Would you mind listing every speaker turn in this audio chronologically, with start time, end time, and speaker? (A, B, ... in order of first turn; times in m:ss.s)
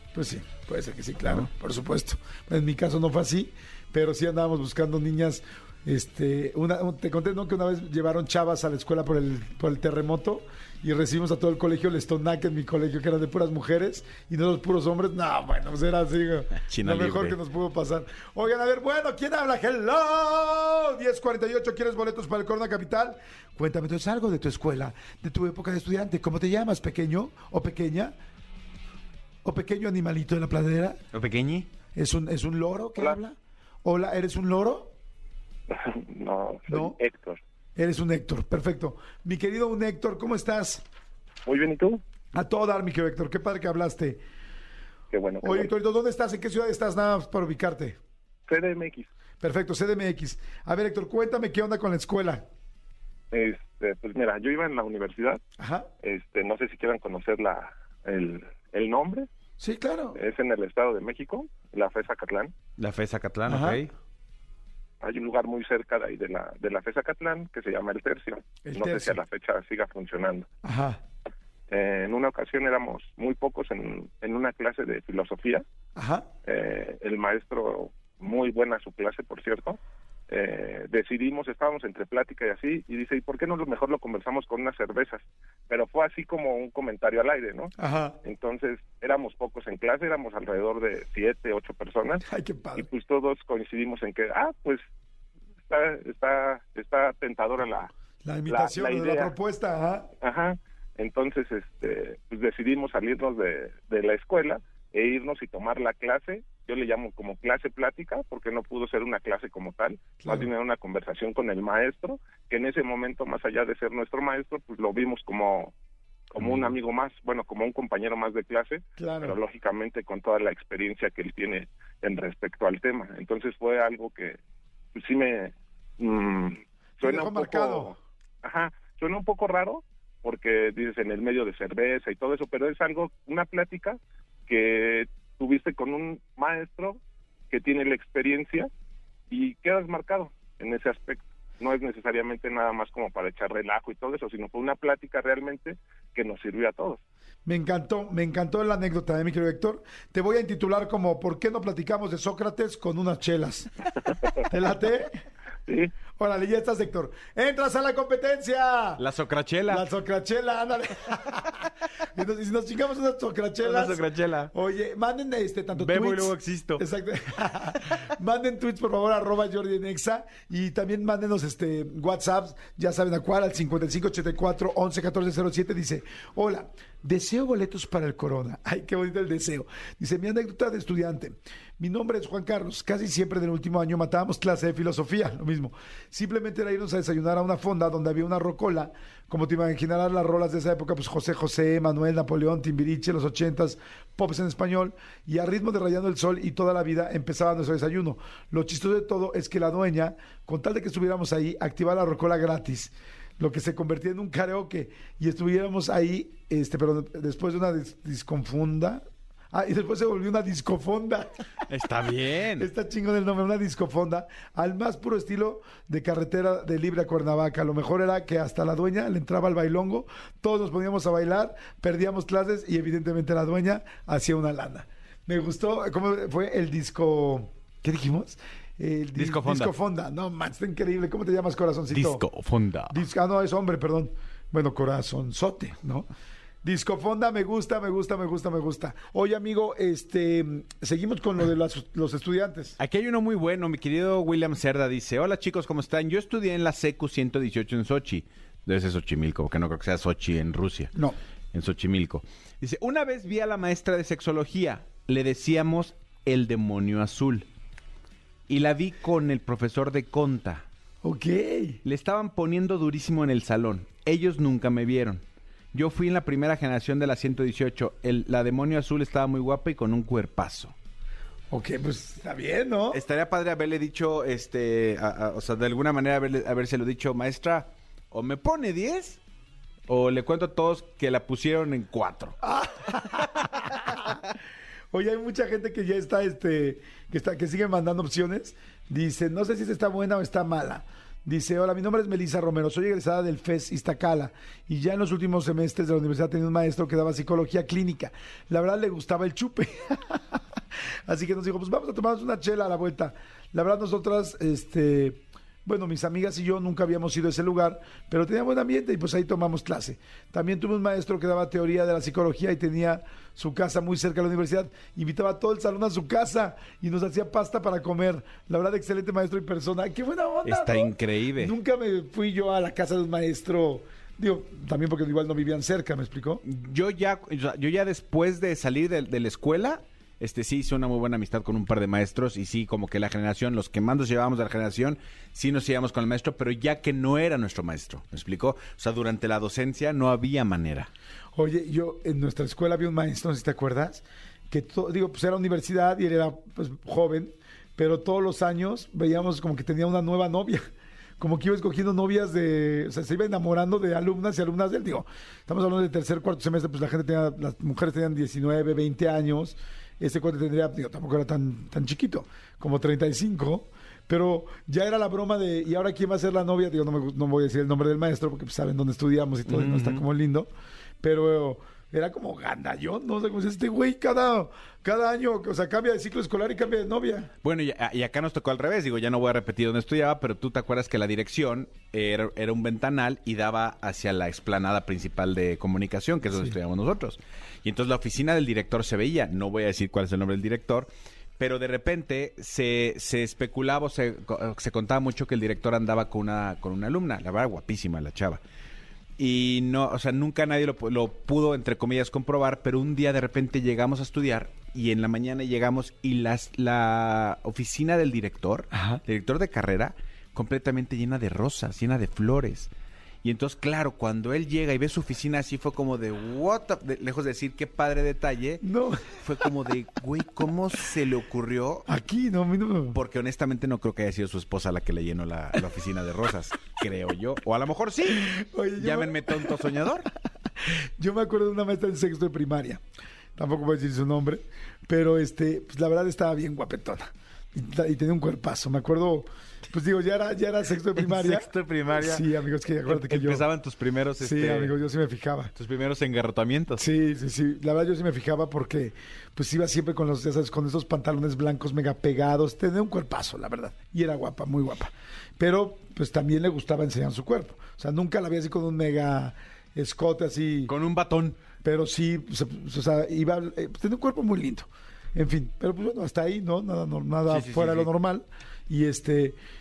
0:00.1-0:28.1 A
0:16.6-0:17.4 B
0:29.4-0:31.0 A
0:31.1-0:31.7 B
0:31.9-0:34.9 A
0:35.7-0:37.4 C
0:36.7-0:37.0 A
0:37.8-0:40.8 A
0:41.4-0:42.0 C
0:42.3-0:44.2 A
0:45.1-0:45.7 C
0:45.4-0:48.0 A
0:48.5-0:49.1 C
0:49.4-0:52.4 A
0:53.3-0:55.4 C
0:55.6-0:55.9 A
0:56.0-0:59.3 C
0:59.6-1:00.2 A
1:00.1-1:02.5 C
1:02.8-1:03.9 B
1:03.5-1:03.8 A
1:05.0-1:10.5 C
1:08.6-1:09.2 A
1:10.6-1:11.0 A
1:11.7-1:15.6 C
1:16.0-1:16.3 A
1:16.4-1:19.8 C
1:20.3-1:27.7 C
1:27.8-1:28.2 A
1:28.2-1:32.2 C
1:32.2-1:32.9 A
1:32.8-1:34.8 C
1:35.7-1:37.9 C
1:38.2-1:40.1 A
1:38.5-1:39.3 C
1:40.2-1:55.7 C
1:50.2-1:50.5 A
1:56.3-2:04.4 C
1:56.4-1:56.7 B
1:59.0-1:59.4 A
2:04.9-2:18.7 C
2:07.0-2:08.0 A
2:19.3-2:27.0 C
2:27.4-2:33.7 A
2:34.4-2:35.2 A
2:35.6-2:35.9 C
2:36.2-2:39.0 A
2:39.0-2:39.9 B
2:39.7-3:31.3 A
2:43.6-2:44.5 B
2:45.8-2:46.8 B
3:31.7-3:32.7 B
3:32.6-3:52.2 A
3:49.2-3:49.7 B
3:51.9-3:53.0 B
3:52.9-3:56.1 A
3:56.6-4:02.8 A
4:02.8-4:10.9 B
4:11.5-4:17.5 B
4:18.5-4:20.6 B
4:21.0-4:21.8 A
4:21.8-4:25.2 B
4:25.7-4:30.7 B
4:31.5-4:33.0 A
4:32.9-4:39.2 B
4:39.9-4:42.4 B
4:42.4-4:44.2 A
4:43.8-4:44.1 B
4:44.9-5:00.4 A
5:01.1-5:26.4 A
5:20.4-5:21.5 B
5:26.4-5:40.9 B
5:41.3-5:50.7 A
5:51.2-6:10.5 A
6:09.5-6:10.0 B
6:11.0-6:17.3 A
6:17.4-6:38.4 B
6:39.2-6:52.7 B
6:48.7-6:49.0 A
6:53.2-6:58.6 B
6:58.6-6:59.5 A
6:59.2-7:01.9 B
7:01.9-7:03.0 A
7:02.9-7:10.1 B
7:08.1-7:09.8 A
7:10.6-7:12.8 A
7:13.4-7:21.5 A
7:20.9-7:22.3 B
7:22.0-7:23.4 A
7:22.8-7:24.8 B
7:24.2-7:25.5 A
7:25.6-7:26.8 B
7:26.8-7:40.7 A
7:40.7-7:41.4 B
7:41.6-7:49.4 A
7:47.3-7:47.9 B